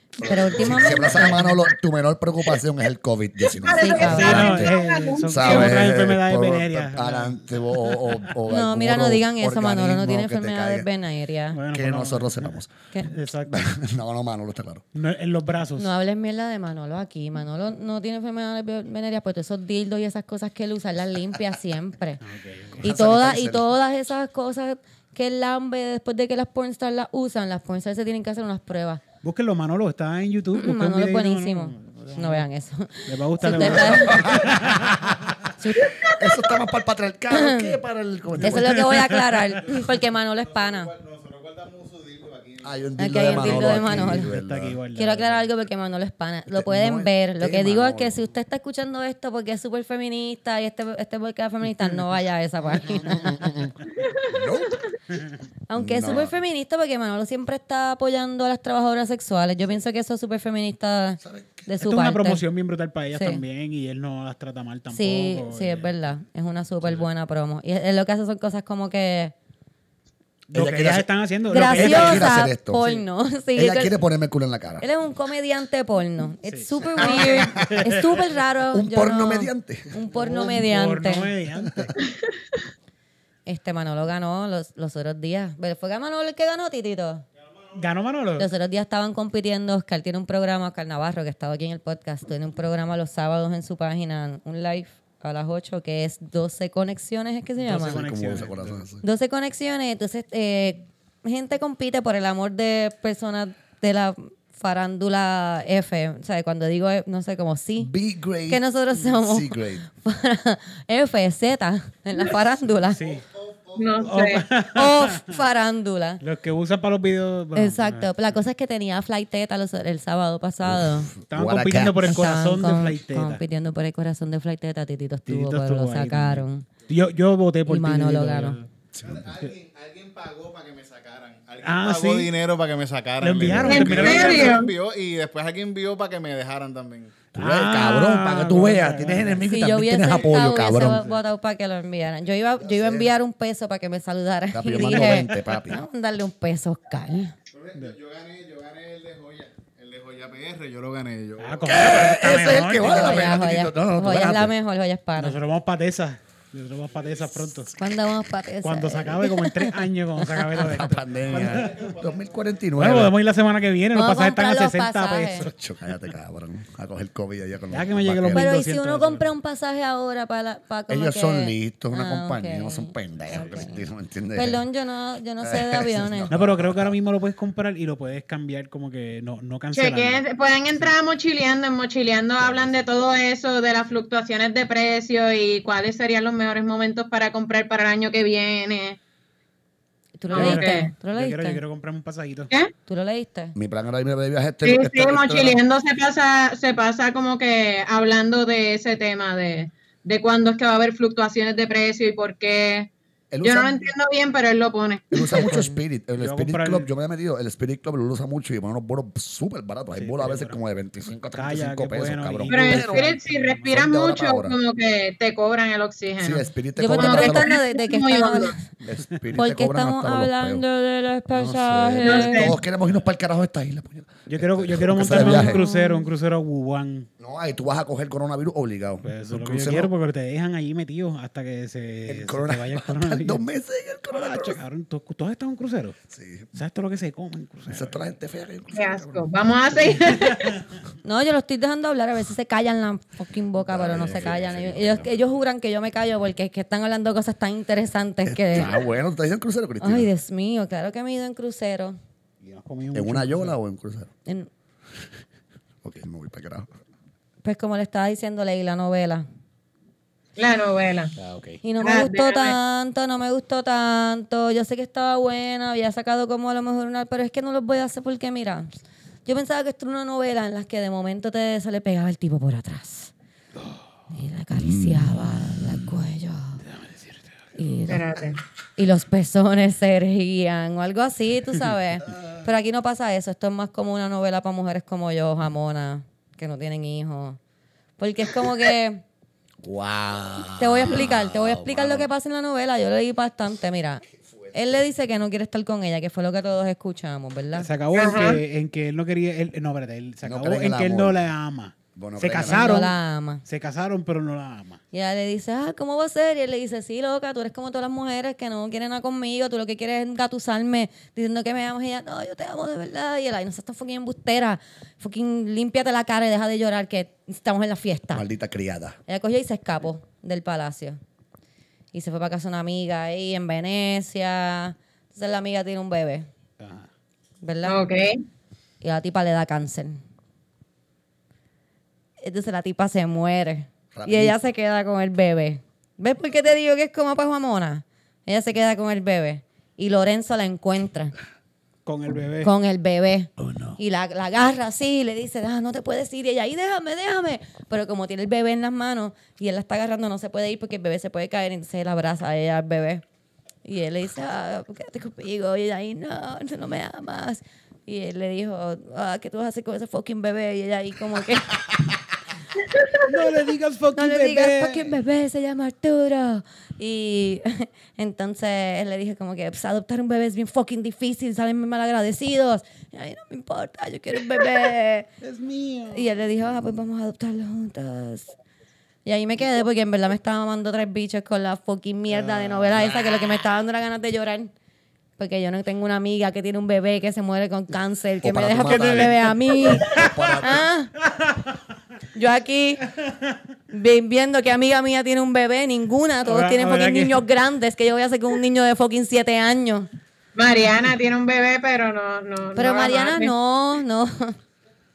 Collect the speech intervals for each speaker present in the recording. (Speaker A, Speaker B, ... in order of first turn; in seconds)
Speaker A: 0.2-4.8, 5.3-10.9, 11.7-12.7, 13.5-14.8, 22.8-23.6, 33.5-35.2, 36.0-38.9, 42.6-44.8, 46.5-48.2, 52.7-53.6, 54.2-54.8, 55.8-56.3, 61.2-61.7, 70.5-73.0, 73.5-74.8, 78.7-80.0, 81.6-81.9, 97.8-99.0, 107.8-109.9, 120.6-122.2, 128.9-129.3, 137.3-141.0, 142.6-143.1, 144.5-145.8, 151.6-154.5, 160.6-163.1, 165.4-168.5, 170.9-174.6, 175.4-176.9, 193.5-195.6, 203.3-203.8, 205.1-213.0, 213.7-214.6, 216.2-217.5, 218.8-220.6, 221.3-225.6, 227.2-229.9, 232.1-234.6, 236.1-236.5, 237.7-239.2, 243.7-245.1, 248.2-250.1, 252.9-254.1, 255.8-256.7, 274.6-275.6, 289.6-292.1, 294.2-294.8, 300.2-301.2, 301.9-302.9, 318.1-319.0, 333.9-334.4, 343.4-343.8, 382.8-383.1, 388.2-390.7
Speaker B: 0.2-1.5, 3.7-4.6, 8.5-11.6, 15.8-22.2, 22.8-29.0, 30.6-34.4, 35.6-36.1, 37.3-37.7, 38.4-40.9, 43.0-44.3, 44.9-53.4, 55.7-62.4, 63.1-63.4, 64.9-69.3, 71.5-74.0, 74.8-81.3, 83.5-87.2, 88.4-98.0, 99.0-107.9, 108.5-113.0, 114.7-116.2, 117.5-121.1, 122.0-126.7, 127.7-128.6, 139.4-147.3, 152.8-155.3, 157.8-160.5, 163.9-165.5, 168.3-173.8, 174.3-176.3, 190.2-191.6, 192.9-193.5, 205.2-205.8, 216.8-218.7, 219.3-222.6, 225.1-226.1, 241.0-248.8, 249.8-252.0, 257.4-259.3, 261.6-268.7, 269.2-273.1, 274.1-276.6, 277.6-278.1, 278.8-287.4, 288.0-289.0, 290.6-297.7, 302.4-303.4, 304.9-318.2, 319.1-321.0, 321.9-326.3, 327.4-327.8, 328.8-330.0, 332.2-341.1, 342.4-353.0, 353.6-361.6, 363.9-375.1, 375.9-378.3, 379.0-384.5, 385.2-390.9, 392.1-392.8, 393.7-399.9, 402.5-404.4
Speaker C: 0.6-1.4, 4.0-8.3, 11.5-13.7, 14.9-15.9, 22.2-22.8, 29.2-32.5, 33.0-35.2, 38.4-39.2, 43.2-45.5, 61.8-65.9, 66.8-67.1, 70.5-72.3, 76.5-78.2, 80.1-81.7, 87.7-88.5, 97.6-98.8, 112.9-113.2, 114.0-115.4, 116.2-118.1, 121.3-123.4, 125.2-128.7, 131.6-132.3, 133.2-134.6, 137.3-139.4, 151.4-153.4, 155.2-157.7, 158.6-161.9, 162.8-165.5, 167.7-169.3, 176.3-180.2, 190.3-192.5, 206.2-206.9, 209.9-210.6, 211.3-213.8, 224.3-227.1, 229.0-233.4, 234.2-236.0, 236.5-238.0, 252.4-253.5, 261.2-261.6, 273.6-273.8, 276.6-277.9, 297.5-304.8, 326.6-326.9, 341.9-342.5, 363.0-364.9, 375.2-376.1, 382.1-382.9, 388.6-390.4, 391.1-391.5, 396.2-397.2
Speaker D: 3.5-5.9, 54.3-54.8, 77.0-77.5, 113.8-114.4, 133.7-134.7, 179.7-189.0, 190.3-190.9, 194.6-202.9, 203.4-205.4, 212.5-218.6, 222.0-222.5, 238.7-240.6, 260.4-261.1, 261.8-262.6, 277.9-278.4, 297.9-298.4, 327.6-328.2, 400.4-403.3
Speaker E: 39.5-42.9, 87.5-87.8, 112.9-114.1, 129.0-137.2, 147.5-151.8, 161.3-162.7